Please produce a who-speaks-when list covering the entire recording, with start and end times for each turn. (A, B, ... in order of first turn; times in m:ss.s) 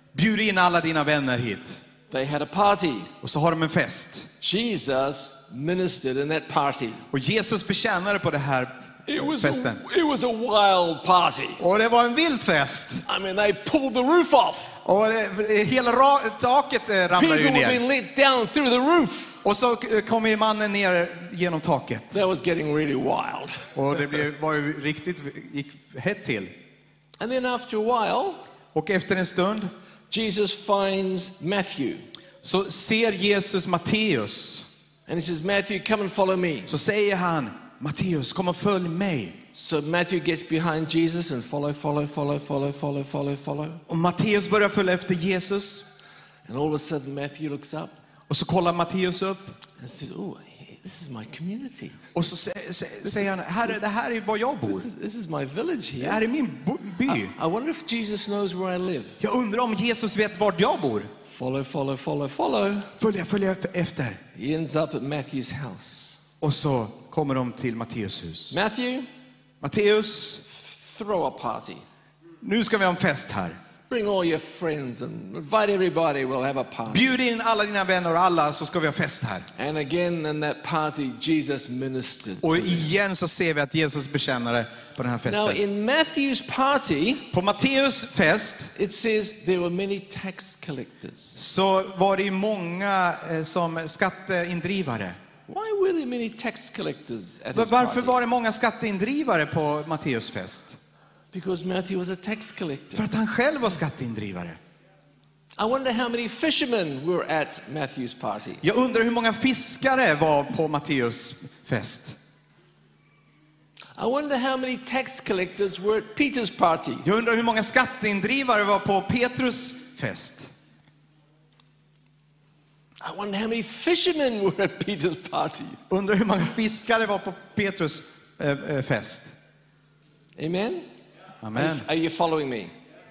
0:00.1-0:01.8 A
0:02.1-0:03.1 B
0:03.2-0:04.3 A
0:04.4-0:07.0 B
0:07.1-0:09.8 A
0:09.0-0:11.6 B
0:11.6-0:13.0 A
0:13.1-0:14.8 B
0:14.8-0:17.8 A
0:17.1-0:19.4 B
0:19.4-0:22.2 A
0:22.1-0:24.0 B
0:23.7-0:26.5 A
0:27.2-0:28.4 B
0:28.7-0:29.7 A
0:30.1-0:32.0 B
0:32.4-0:34.6 A
0:35.1-0:36.7 B
0:36.7-0:39.4 A
0:39.5-0:43.8 B
0:43.9-0:45.8 A
0:46.4-0:47.9 B
0:48.3-0:49.6 A
0:49.8-0:52.0 B
0:52.1-0:54.9 A
0:54.6-0:56.2 B
0:56.0-0:57.3 A
0:57.1-0:59.2 B
0:59.2-1:01.1 A
1:01.2-1:02.9 B
1:03.0-1:04.2 A
1:04.3-1:06.2 B
1:06.4-1:08.6 A
1:08.5-1:09.1 B
1:09.6-1:10.4 A
1:10.4-1:11.8 B
1:12.4-1:13.6 A
1:13.9-1:17.2 B
1:16.9-1:19.5 A
1:19.6-1:22.9 B
1:22.4-1:25.6 A
1:25.3-1:27.3 B
1:27.3-1:28.7 A
1:28.8-1:31.4 B
1:31.4-1:35.2 A
1:35.5-1:38.2 B
1:37.5-1:40.8 A
1:41.3-1:43.0 B
1:42.9-1:44.6 A
1:45.6-1:48.6 B
1:48.6-1:52.2 A
1:54.0-1:57.0 B
1:57.0-2:00.5 A
2:03.0-2:05.8 B
2:05.9-2:09.3 A
2:10.4-2:10.9 B
2:11.4-2:11.9 A
2:11.5-2:12.7 B